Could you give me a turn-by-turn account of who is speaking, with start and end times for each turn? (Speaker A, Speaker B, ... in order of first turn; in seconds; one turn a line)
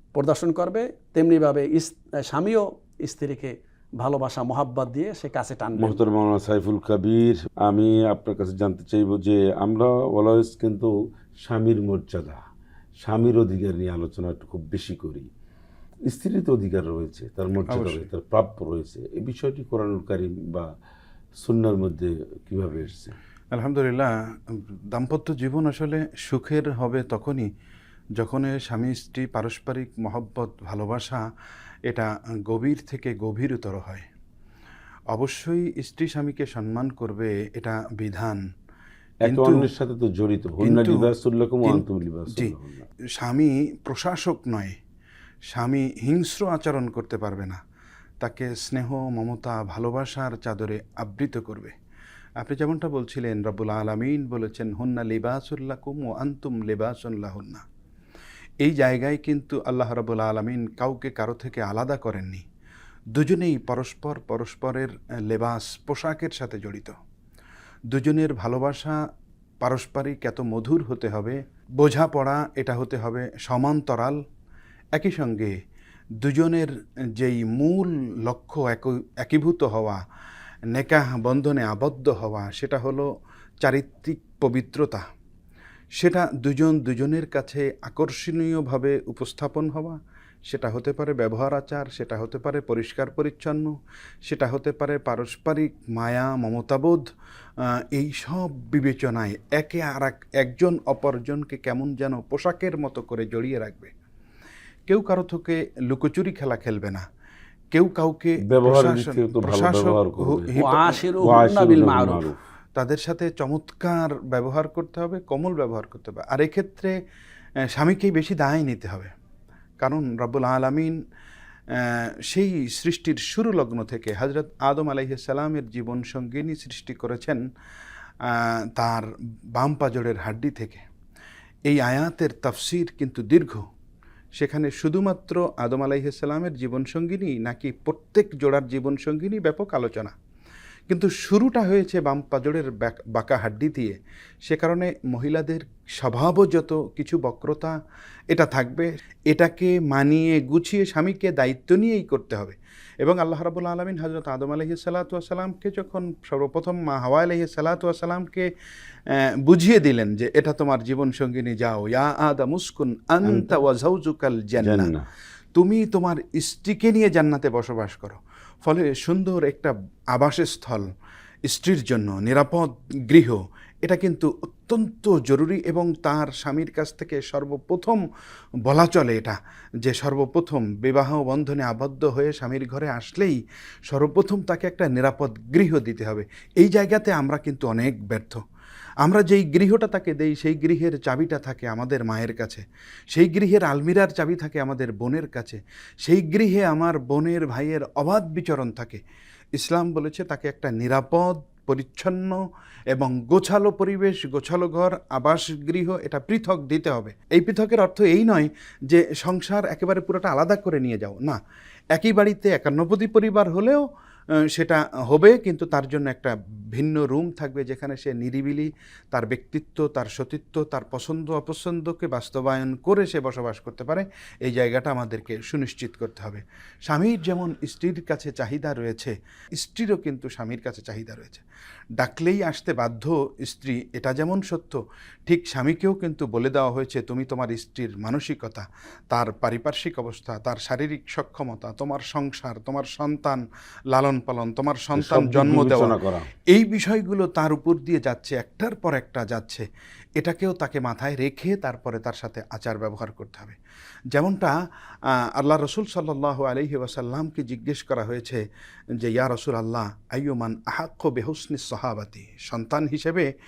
Speaker A: 0.1-6.0
Speaker B: 5.8-12.4
Speaker B: 13.0-15.3
Speaker B: 16.1-20.7
Speaker C: 17.7-18.0
Speaker B: 21.4-23.1
Speaker C: 23.5-27.5
Speaker C: 28.2-31.2
Speaker C: 31.9-34.0
Speaker C: 35.1-38.4
Speaker B: 39.2-42.9
Speaker C: 39.2-39.7
Speaker C: 40.6-41.1
Speaker C: 43.1-44.8
Speaker C: 45.5-47.6
Speaker C: 48.2-51.7
Speaker C: 52.4-57.6
Speaker C: 58.6-62.4
Speaker C: 63.1-67.0
Speaker C: 67.9-69.0
Speaker C: 69.6-74.2
Speaker C: 74.9-75.5
Speaker C: 76.2-80.0
Speaker C: 80.7-83.1
Speaker C: 83.6-85.0
Speaker C: 86.0-103.9
Speaker C: 104.9-107.0
Speaker C: 107.7-111.1
Speaker B: 108.4-110.5
Speaker A: 110.5-112.2
Speaker B: 111.2-112.4
Speaker C: 112.7-117.0
Speaker C: 117.7-119.1
Speaker C: 119.8-121.0
Speaker C: 121.7-127.4
Speaker C: 128.2-130.8
Speaker C: 131.7-133.6
Speaker C: 134.4-140.1
Speaker C: 140.9-147.7
Speaker C: 148.3-158.5
Speaker C: 159.1-164.9
Speaker B: 163.2-163.6
Speaker B: 164.6-165.1
Speaker C: 165.5-170.9
Speaker C: 171.4-178.0
Speaker C: 178.7-188.4
Speaker C: 189.0-199.0
Speaker C: 199.6-211.4
Speaker C: 211.9-231.4
Speaker C: 232.0-249.7
Speaker B: 244.9-246.3
Speaker C: 250.2-253.6
Speaker C: 254.1-254.5
Speaker C: 255.0-258.4
Speaker C: 259.0-263.3